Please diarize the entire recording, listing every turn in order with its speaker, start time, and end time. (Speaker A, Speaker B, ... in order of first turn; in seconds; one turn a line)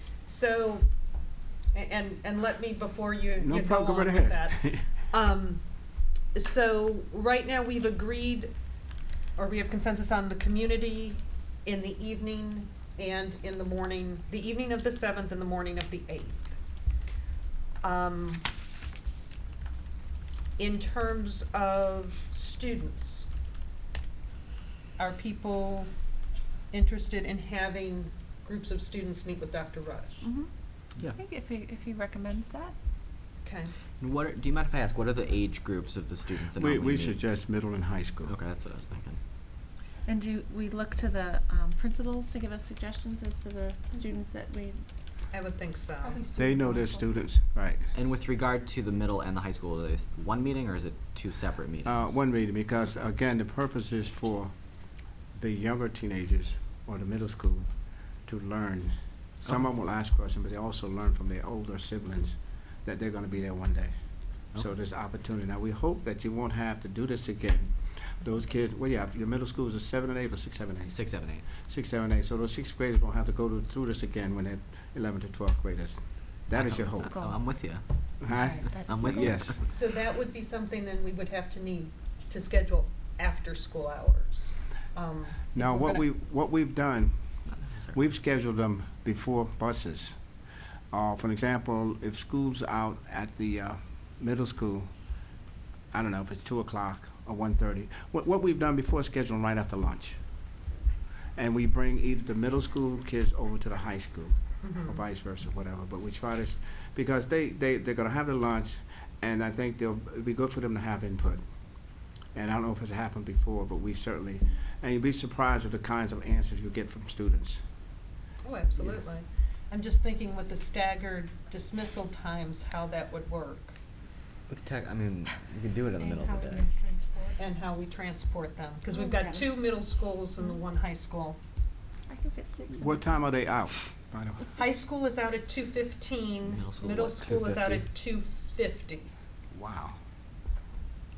Speaker A: 0.3-0.9
Speaker A: 1.7-5.6
Speaker B: 3.4-4.9
Speaker A: 6.3-8.5
Speaker A: 9.4-16.6
Speaker A: 17.8-18.4
Speaker A: 20.6-23.3
Speaker A: 25.0-25.9
Speaker A: 26.7-30.2
Speaker C: 30.2-30.5
Speaker C: 31.1-32.7
Speaker A: 33.4-33.7
Speaker D: 34.0-37.2
Speaker B: 36.5-38.3
Speaker D: 38.3-39.2
Speaker C: 40.1-44.8
Speaker A: 45.3-46.3
Speaker B: 46.4-47.8
Speaker D: 47.9-52.2
Speaker B: 51.9-54.5
Speaker B: 55.3-57.7
Speaker B: 58.3-64.0
Speaker B: 64.5-77.2
Speaker D: 70.9-71.5
Speaker D: 76.5-77.8
Speaker C: 77.1-77.3
Speaker B: 78.2-79.6
Speaker A: 78.3-78.6
Speaker C: 78.7-79.4
Speaker D: 78.9-79.6
Speaker A: 79.7-86.0
Speaker B: 85.5-87.1
Speaker D: 87.5-88.0
Speaker B: 87.9-90.2
Speaker B: 90.9-94.9
Speaker B: 95.9-100.2
Speaker B: 101.4-111.4
Speaker A: 104.6-105.0
Speaker B: 112.3-117.6
Speaker A: 118.4-123.8
Speaker D: 124.5-126.7
Speaker C: 126.1-127.2
Speaker A: 127.4-131.4
Speaker C: 128.9-129.5
Speaker C: 132.1-133.1
Speaker B: 132.7-134.5
Speaker A: 134.6-139.1
Speaker D: 136.5-137.9
Speaker B: 139.5-140.0